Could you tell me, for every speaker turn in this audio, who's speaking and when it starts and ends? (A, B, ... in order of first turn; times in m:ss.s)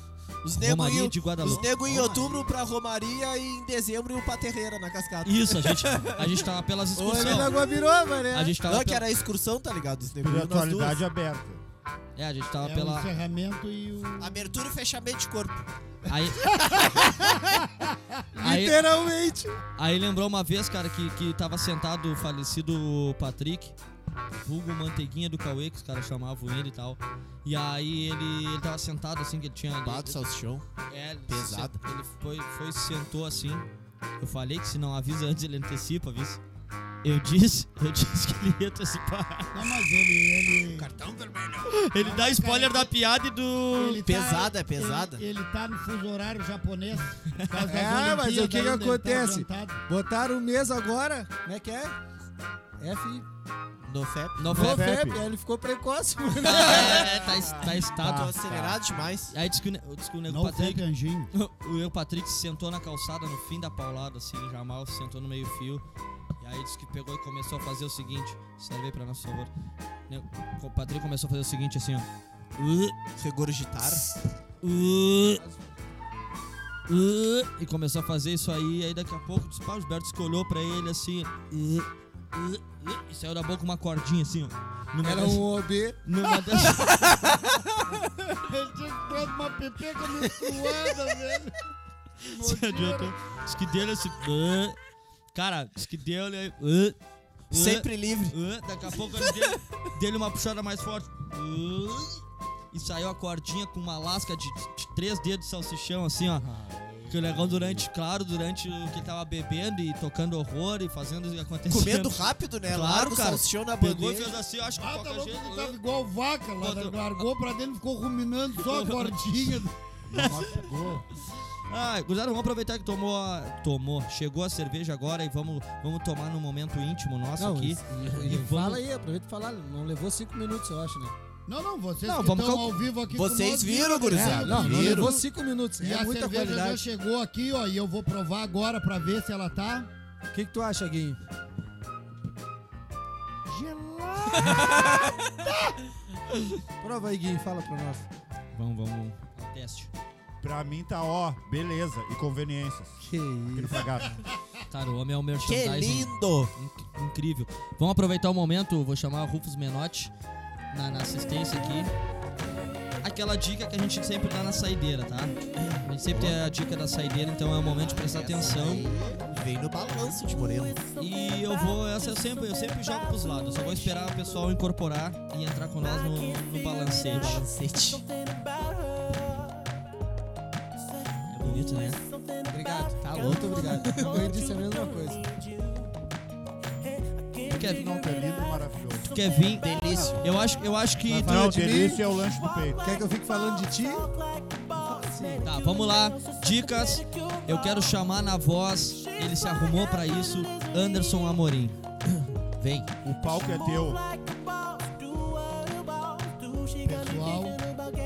0:00.4-0:06.4 A
0:00.5-0:02.3 B
0:05.2-0:07.6 B
0:07.0-0:07.6 A
0:07.0-0:08.6 C
0:08.3-0:09.1 B
0:08.6-0:11.0 A
0:10.2-0:11.6 D
0:12.2-0:13.1 B
0:12.6-0:14.6 E
0:14.2-0:15.6 A
0:16.1-0:16.8 B
0:16.5-0:16.8 E
0:17.3-0:18.0 E
0:18.4-0:19.6 C
0:18.4-0:18.8 B
0:19.8-0:23.8 B
0:24.4-0:30.2 B
0:29.8-0:30.6 A
0:30.9-0:33.7 B
0:31.3-0:31.8 A
0:34.2-0:36.4 B
0:37.0-0:39.8 B
0:39.5-0:40.9 E
0:40.8-0:41.7 C
0:41.6-0:44.0 B
0:42.0-0:42.9 E
0:43.7-0:49.8 E
0:44.0-0:45.2 A
0:47.6-0:52.0 C
0:52.8-0:53.3 C
0:53.8-0:54.5 A
0:54.4-0:54.9 B
0:54.5-0:55.2 D
0:54.5-0:57.1 C
0:56.4-0:58.4 B
0:56.7-0:58.8 D
0:58.1-0:59.3 A
0:59.3-1:05.8 B
1:00.3-1:01.3 E
1:06.4-1:09.5 B
1:10.1-1:12.9 B
1:13.2-1:14.0 A
1:14.6-1:15.4 B
1:16.9-1:25.5 B
1:25.0-1:26.0 C
1:26.0-1:27.2 B
1:28.4-1:31.6 E
1:30.2-1:30.7 C
1:32.2-1:33.1 E
1:32.3-1:34.8 B
1:35.3-1:37.0 B
1:37.5-1:42.2 B
1:37.5-1:38.4 A
1:42.7-1:46.5 B
1:46.4-1:47.8 D
1:47.1-1:55.8 B
1:51.7-1:54.4 A
1:54.8-1:59.8 E
1:56.6-1:57.2 B
1:58.6-1:59.2 B
2:00.1-2:01.1 D
2:01.7-2:08.8 B
2:07.4-2:11.2 C
2:11.5-2:15.2 E
2:12.0-2:12.8 B
2:13.1-2:15.2 A
2:14.1-2:16.8 C
2:14.5-2:15.0 D
2:15.8-2:19.9 E
2:20.3-2:21.2 C
2:23.6-2:24.4 E
2:26.8-2:28.1 C
2:28.6-2:29.9 B
2:30.4-2:34.2 D
2:33.0-2:33.8 C
2:34.7-2:40.1 B
2:35.4-2:36.5 A
2:40.7-2:41.9 B
2:43.0-2:48.9 B
2:45.6-2:46.4 A
2:47.7-2:49.6 E
2:47.8-2:50.8 A
2:51.0-2:57.4 B
2:57.1-2:58.0 A
3:01.3-3:02.0 B
3:02.5-3:05.3 C
3:03.2-3:04.2 A
3:07.5-3:07.8 B
3:07.5-3:09.1 D
3:09.1-3:11.5 B
3:09.6-3:10.2 A
3:11.1-3:12.8 D
3:11.2-3:12.0 C
3:12.8-3:14.1 C
3:14.7-3:15.4 C
3:15.4-3:21.8 B
3:22.6-3:22.9 B
3:23.0-3:24.0 D
3:26.9-3:27.6 E